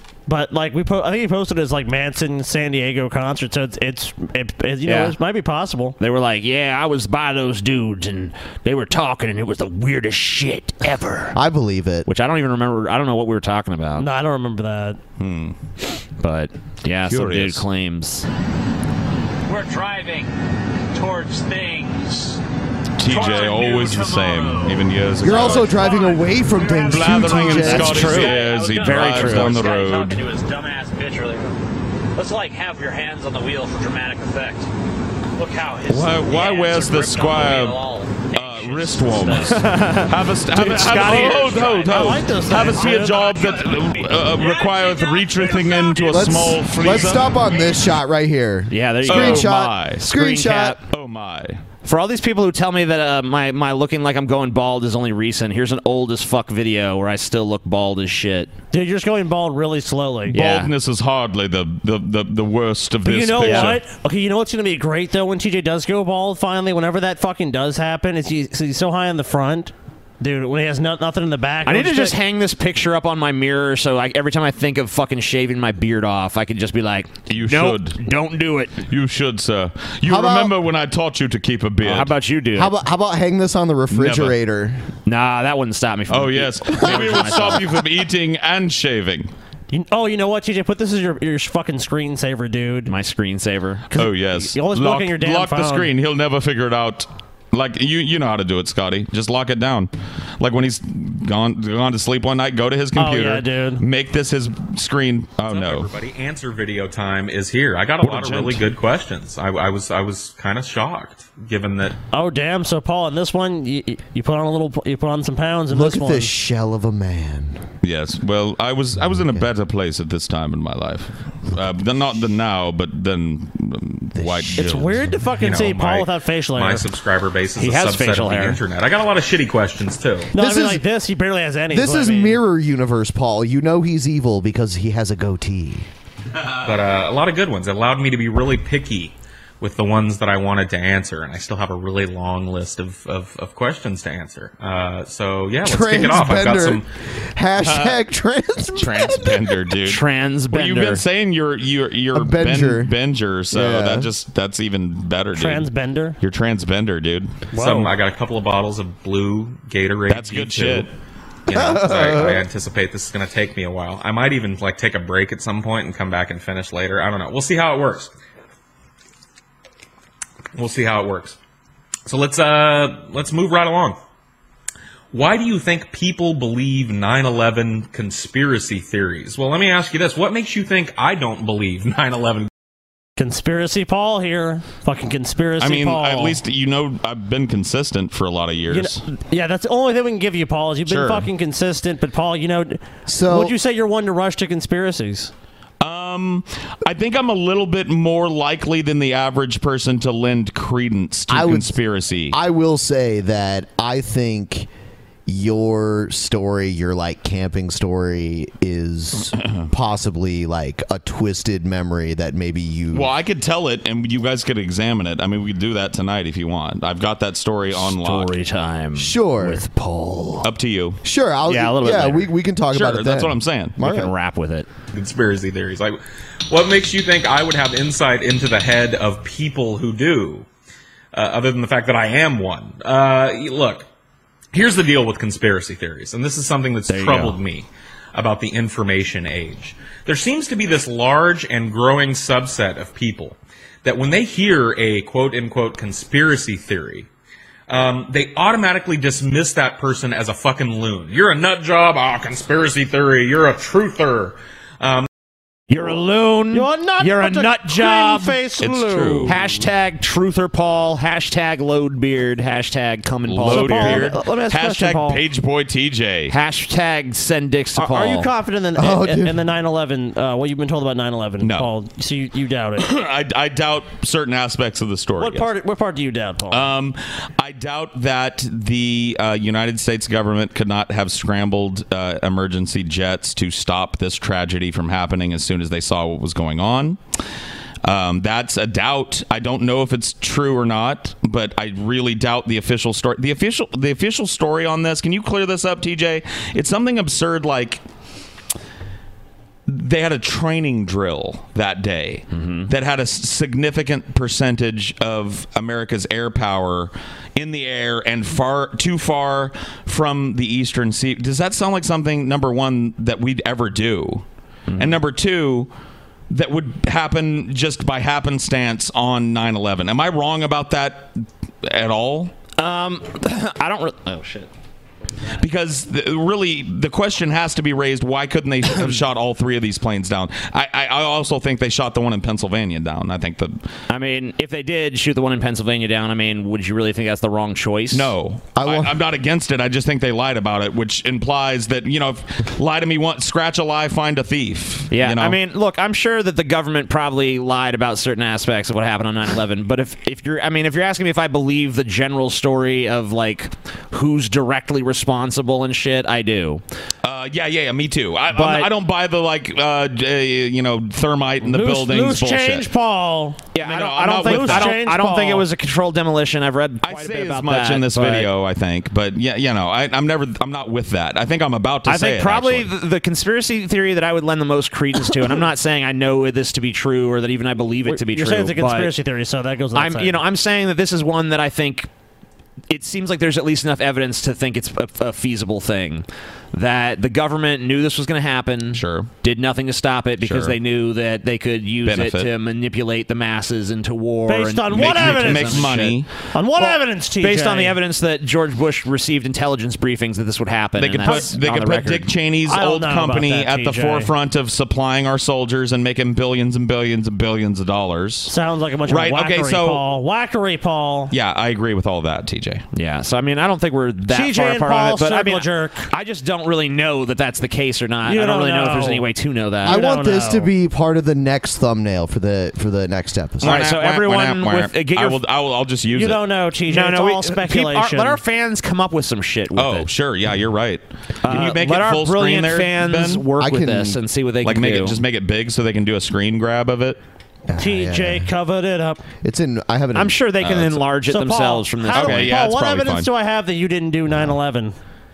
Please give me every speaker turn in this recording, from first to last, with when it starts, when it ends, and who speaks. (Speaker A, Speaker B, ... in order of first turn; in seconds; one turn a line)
Speaker A: 0.3-6.0
Speaker B: 4.8-5.1
Speaker B: 6.0-11.4
Speaker C: 11.3-12.1
Speaker B: 12.1-14.1
Speaker A: 14.0-15.0
Speaker D: 15.2-15.6
Speaker B: 16.2-18.3
Speaker D: 17.1-17.6
Speaker E: 19.5-20.3
Speaker E: 20.9-22.4
Speaker D: 23.0-25.8
Speaker E: 23.0-24.8
Speaker C: 25.2-28.3
Speaker E: 25.3-26.9
Speaker D: 26.9-30.2
Speaker B: 27.2-29.7
Speaker E: 28.1-31.5
Speaker E: 32.1-34.7
Speaker E: 35.4-39.5
Speaker D: 35.9-37.8
Speaker D: 38.3-47.3
Speaker B: 39.3-41.8
Speaker A: 41.0-43.3
Speaker E: 41.5-41.8
Speaker E: 43.1-46.2
Speaker C: 46.1-50.8
Speaker B: 48.7-50.8
Speaker D: 49.0-50.0
Speaker D: 50.9-51.6
Speaker B: 51.8-58.5
Speaker A: 58.7-60.4
Speaker D: 60.3-63.8
Speaker B: 60.3-60.7
Speaker A: 63.0-72.2
Speaker B: 63.4-63.8
Speaker B: 71.7-78.8
Speaker D: 77.3-78.0
Speaker D: 78.9-82.1
Speaker C: 80.0-80.5
Speaker B: 81.8-82.7
Speaker C: 82.5-84.8
Speaker D: 83.9-84.3
Speaker B: 85.0-87.7
Speaker D: 86.1-89.3
Speaker C: 86.9-87.3
Speaker A: 89.7-92.9
Speaker B: 92.9-93.8
Speaker A: 93.9-95.9
Speaker D: 93.9-105.9
Speaker A: 103.0-103.8
Speaker F: 105.5-112.0
Speaker D: 108.0-108.6
Speaker B: 108.1-108.5
Speaker A: 112.1-116.3
Speaker C: 115.7-117.7
Speaker D: 117.8-125.1
Speaker C: 119.1-119.4
Speaker C: 124.1-124.6
Speaker A: 124.5-126.8
Speaker F: 125.3-130.3
Speaker B: 127.6-128.6
Speaker A: 130.3-132.4
Speaker C: 130.3-130.8
Speaker C: 131.7-135.9
Speaker F: 136.6-146.8
Speaker C: 145.6-149.5
Speaker D: 147.6-148.0
Speaker D: 148.8-155.7
Speaker B: 149.8-151.0
Speaker C: 152.1-152.9
Speaker C: 153.5-154.1
Speaker A: 155.3-156.2
Speaker D: 156.2-157.9
Speaker A: 157.5-157.9
Speaker F: 157.6-160.9
Speaker D: 160.1-160.9
Speaker F: 161.5-168.1
Speaker C: 161.5-162.4
Speaker F: 170.5-171.4
Speaker F: 172.1-174.0
Speaker F: 175.1-182.5
Speaker A: 183.2-186.4
Speaker D: 185.6-189.0
Speaker A: 188.7-195.3
Speaker D: 190.8-191.3
Speaker C: 193.1-193.5
Speaker D: 195.8-202.3
Speaker C: 201.3-201.8
Speaker C: 202.3-204.7
Speaker C: 205.3-213.1
Speaker D: 209.3-209.7
Speaker D: 212.9-218.3
Speaker B: 217.7-220.5
Speaker C: 219.0-219.6
Speaker D: 220.4-221.0
Speaker C: 221.0-224.1
Speaker B: 221.5-223.0
Speaker D: 222.9-223.9
Speaker B: 223.8-224.7
Speaker F: 224.9-230.5
Speaker F: 231.1-233.9
Speaker F: 234.5-247.1
Speaker B: 236.9-237.4
Speaker F: 247.7-255.1
Speaker B: 255.7-258.4
Speaker A: 256.5-259.3
Speaker D: 258.6-259.5
Speaker B: 259.2-264.1
Speaker D: 263.3-266.3
Speaker A: 263.5-265.2
Speaker B: 266.3-268.3
Speaker A: 267.8-272.9
Speaker C: 268.8-269.4
Speaker D: 271.4-271.7
Speaker D: 272.8-275.5
Speaker A: 275.2-276.6
Speaker D: 276.5-287.0
Speaker D: 287.8-297.8
Speaker D: 299.7-314.2
Speaker B: 302.3-302.7
Speaker B: 314.7-315.0
Speaker D: 314.8-315.7
Speaker D: 316.3-322.3
Speaker B: 322.6-324.5
Speaker D: 325.4-333.6
Speaker B: 333.9-338.1
Speaker D: 337.9-345.4
Speaker C: 338.6-338.9
Speaker B: 344.9-356.6
Speaker D: 357.0-362.6
Speaker B: 358.3-358.7
Speaker A: 361.4-363.4
Speaker B: 363.5-368.3
Speaker D: 363.6-364.8
Speaker A: 364.2-365.4
Speaker D: 366.8-372.7
Speaker B: 371.9-378.9
Speaker A: 377.9-380.2
Speaker B: 379.7-381.9
Speaker B: 382.7-396.0
Speaker D: 388.7-389.1
Speaker D: 390.2-390.6
Speaker D: 391.8-392.3
Speaker A: 394.3-395.7
Speaker D: 394.7-396.1
Speaker A: 396.3-397.8
Speaker B: 396.6-402.1
Speaker D: 400.8-408.3
Speaker A: 402.5-404.1
Speaker A: 408.3-411.1
Speaker D: 408.9-409.8
Speaker D: 411.1-412.6
Speaker B: 412.7-419.8
Speaker A: 414.1-415.9
Speaker A: 418.1-419.0
Speaker A: 419.6-420.5
Speaker C: 419.6-423.6
Speaker D: 423.4-426.2
Speaker B: 423.4-425.2
Speaker A: 425.9-428.2
Speaker B: 426.7-429.9
Speaker D: 429.6-433.2
Speaker B: 431.2-435.0
Speaker C: 433.4-434.0
Speaker D: 434.4-437.0
Speaker C: 437.5-438.3
Speaker A: 437.6-439.0
Speaker C: 439.2-440.1
Speaker B: 439.9-442.3
Speaker D: 440.4-440.8
Speaker A: 441.1-444.8
Speaker D: 441.9-443.1